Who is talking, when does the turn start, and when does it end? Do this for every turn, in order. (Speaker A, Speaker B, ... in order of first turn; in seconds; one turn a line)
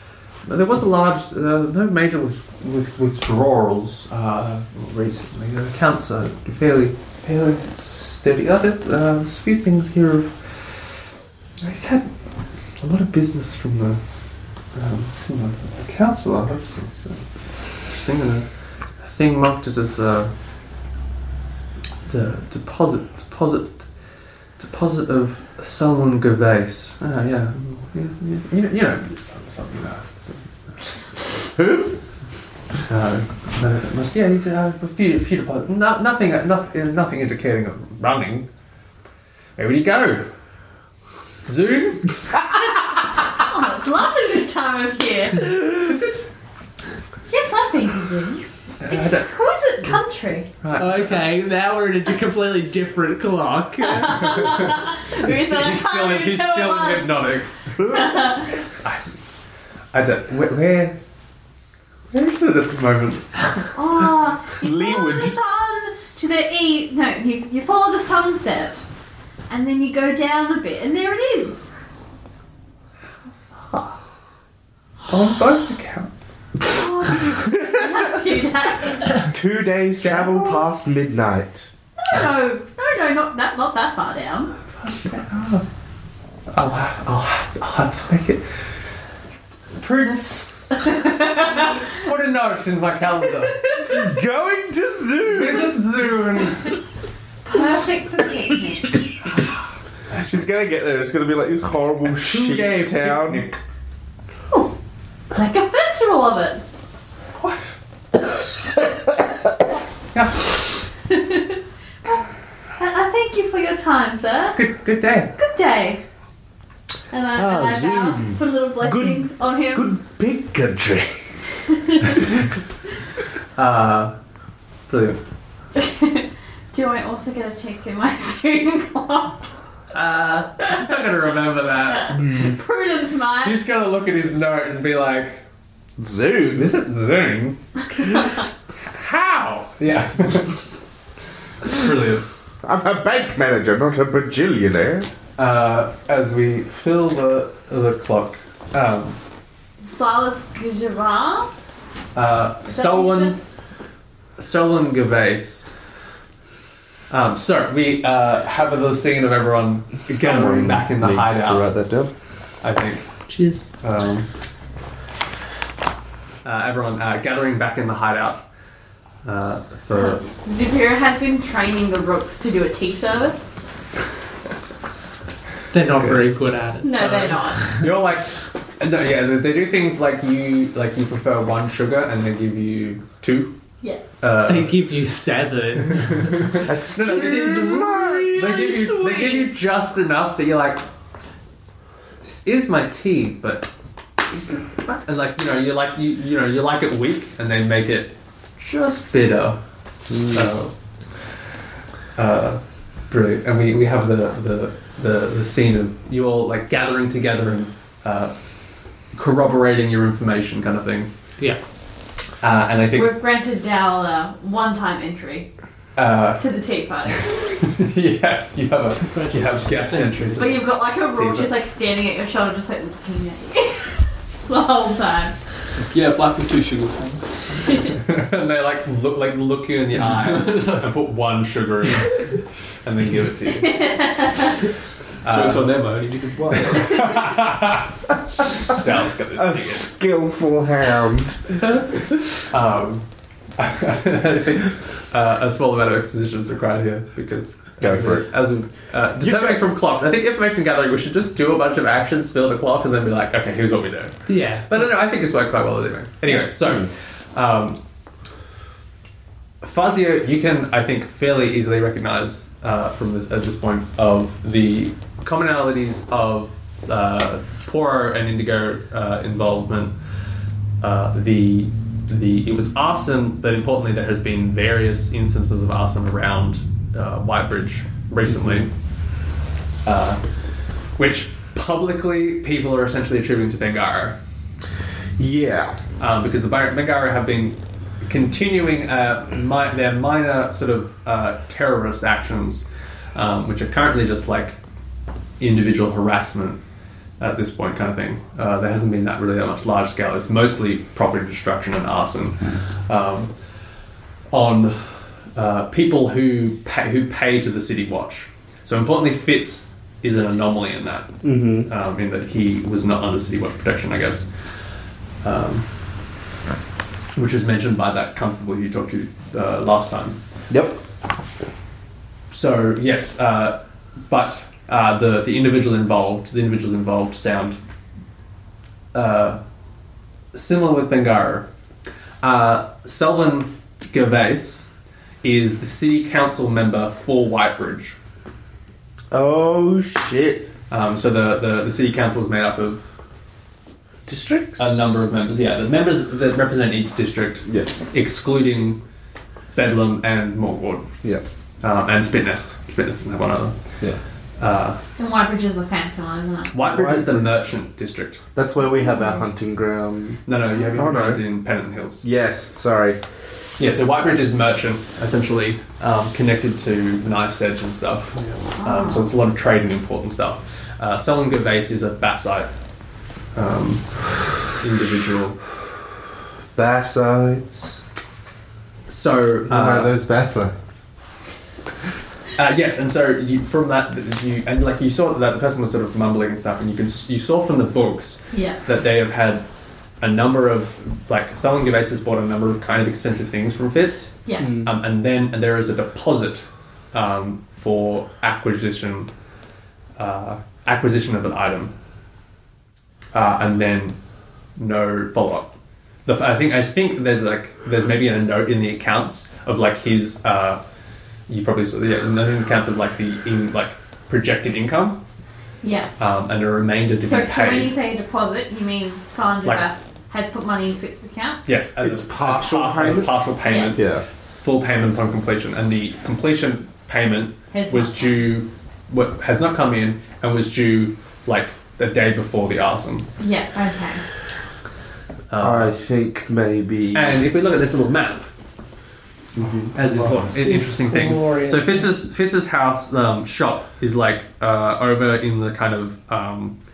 Speaker A: 0.4-11.1
Speaker A: 11.6-12.1
Speaker A: 12.8-14.0
Speaker A: 14.7-18.5
Speaker A: 19.0-20.3
Speaker A: 22.1-23.9
Speaker A: 24.6-30.9
Speaker B: 31.5-32.0
Speaker A: 32.9-38.5
Speaker A: 39.6-40.3
Speaker A: 41.5-42.2
Speaker C: 42.9-45.6
Speaker A: 45.6-46.2
Speaker C: 47.3-50.5
Speaker A: 48.8-49.3
Speaker A: 50.6-51.2
Speaker D: 50.8-54.4
Speaker C: 53.8-57.3
Speaker A: 54.3-57.5
Speaker B: 57.8-58.4
Speaker C: 57.9-58.5
Speaker A: 58.8-59.1
Speaker A: 59.9-61.0
Speaker A: 62.1-63.4
Speaker C: 63.7-68.8
Speaker B: 64.6-65.3
Speaker C: 69.5-71.6
Speaker A: 75.1-76.4
Speaker C: 76.7-79.2
Speaker B: 79.3-81.7
Speaker A: 80.0-80.3
Speaker C: 80.1-80.5
Speaker C: 82.0-84.5
Speaker A: 84.8-85.6
Speaker A: 86.5-88.6
Speaker A: 89.8-90.5
Speaker C: 90.8-91.8
Speaker A: 91.5-93.7
Speaker C: 93.6-94.0
Speaker B: 93.8-95.8
Speaker A: 95.2-96.8
Speaker C: 97.4-99.1
Speaker B: 100.1-103.5
Speaker A: 102.1-103.6
Speaker C: 105.3-106.6
Speaker A: 110.1-110.5
Speaker C: 111.1-112.2
Speaker C: 112.8-114.6
Speaker A: 114.5-115.3
Speaker C: 115.4-116.0
Speaker C: 117.1-120.0
Speaker B: 117.3-121.3
Speaker A: 123.5-124.1
Speaker A: 124.9-125.2
Speaker C: 125.7-129.4
Speaker A: 129.9-132.2
Speaker C: 130.6-131.0
Speaker C: 131.9-133.6
Speaker B: 132.1-132.6
Speaker A: 133.4-135.4
Speaker B: 136.0-136.7
Speaker A: 136.5-137.6
Speaker C: 138.0-138.4
Speaker A: 138.9-140.6
Speaker A: 141.6-142.2
Speaker B: 142.6-145.1
Speaker A: 145.4-149.2
Speaker C: 149.8-151.5
Speaker A: 152.1-153.4
Speaker C: 152.7-153.3
Speaker A: 154.4-155.7
Speaker A: 157.1-161.7
Speaker B: 160.1-162.1
Speaker A: 162.6-163.1
Speaker D: 163.3-163.6
Speaker A: 163.8-164.3
Speaker A: 166.4-168.4
Speaker A: 169.2-170.2
Speaker C: 169.9-173.4
Speaker D: 175.7-177.9
Speaker A: 175.9-176.2
Speaker C: 176.8-177.7
Speaker A: 177.8-183.6
Speaker A: 184.2-184.8
Speaker D: 184.4-188.3
Speaker A: 186.3-190.8
Speaker B: 186.7-188.8
Speaker C: 188.4-189.5
Speaker A: 192.2-193.7
Speaker A: 194.2-199.6
Speaker B: 200.1-200.5
Speaker A: 200.2-200.7
Speaker A: 202.2-208.3
Speaker A: 209.1-211.1
Speaker A: 212.4-213.1
Speaker C: 212.9-215.5
Speaker A: 215.9-216.4
Speaker C: 216.4-217.4
Speaker A: 217.2-221.5
Speaker D: 219.1-220.3
Speaker C: 220.4-223.9
Speaker C: 224.4-225.4
Speaker E: 225.9-227.8
Speaker C: 227.7-227.9
Speaker A: 228.0-233.8
Speaker E: 230.2-230.8
Speaker C: 233.6-234.5
Speaker A: 235.2-235.8
Speaker E: 235.2-237.2
Speaker A: 236.5-237.9
Speaker A: 238.7-239.9
Speaker B: 239.3-241.4
Speaker A: 242.4-243.0
Speaker A: 243.6-257.8
Speaker B: 247.8-248.3
Speaker B: 249.2-249.6
Speaker D: 254.3-254.9
Speaker A: 259.6-269.9
Speaker A: 270.8-278.7
Speaker A: 279.8-280.2
Speaker A: 281.0-284.1
Speaker B: 285.2-285.8
Speaker A: 286.0-294.6
Speaker A: 295.4-296.6
Speaker A: 297.2-303.3
Speaker A: 304.3-314.3
Speaker B: 311.2-311.7
Speaker A: 315.2-315.7
Speaker A: 317.1-320.2
Speaker B: 320.5-320.8
Speaker A: 322.3-327.6
Speaker A: 328.9-329.4
Speaker A: 330.3-331.5
Speaker A: 332.2-334.7
Speaker A: 335.2-338.0
Speaker B: 339.1-340.5
Speaker A: 340.7-342.8
Speaker B: 344.1-345.0
Speaker A: 344.6-348.8
Speaker B: 347.4-347.7
Speaker A: 349.5-350.9
Speaker A: 351.6-353.6
Speaker A: 354.4-354.8
Speaker C: 355.0-357.0
Speaker A: 356.5-358.2
Speaker B: 356.7-357.1
Speaker B: 358.4-361.2
Speaker C: 358.7-359.2
Speaker A: 360.2-362.0
Speaker B: 362.0-363.0
Speaker A: 363.6-372.5
Speaker C: 368.6-369.0
Speaker A: 373.3-373.9
Speaker A: 374.5-375.4
Speaker B: 376.5-377.9
Speaker A: 378.9-379.9
Speaker B: 379.5-380.6
Speaker A: 382.4-389.4
Speaker C: 388.3-388.6
Speaker A: 390.0-399.1
Speaker B: 394.4-394.7
Speaker A: 400.0-401.7
Speaker A: 403.1-404.0
Speaker A: 404.6-405.5
Speaker A: 406.1-410.6
Speaker A: 411.3-415.0
Speaker C: 415.6-415.9
Speaker A: 416.0-417.7
Speaker C: 417.0-421.4
Speaker A: 421.4-423.8
Speaker B: 421.8-424.0
Speaker C: 423.4-423.8
Speaker A: 424.4-433.1
Speaker C: 427.5-428.2
Speaker C: 433.2-434.0
Speaker A: 435.3-435.7
Speaker B: 435.4-437.2
Speaker A: 436.9-438.3
Speaker B: 439.4-440.1
Speaker A: 439.7-446.6
Speaker D: 440.4-441.9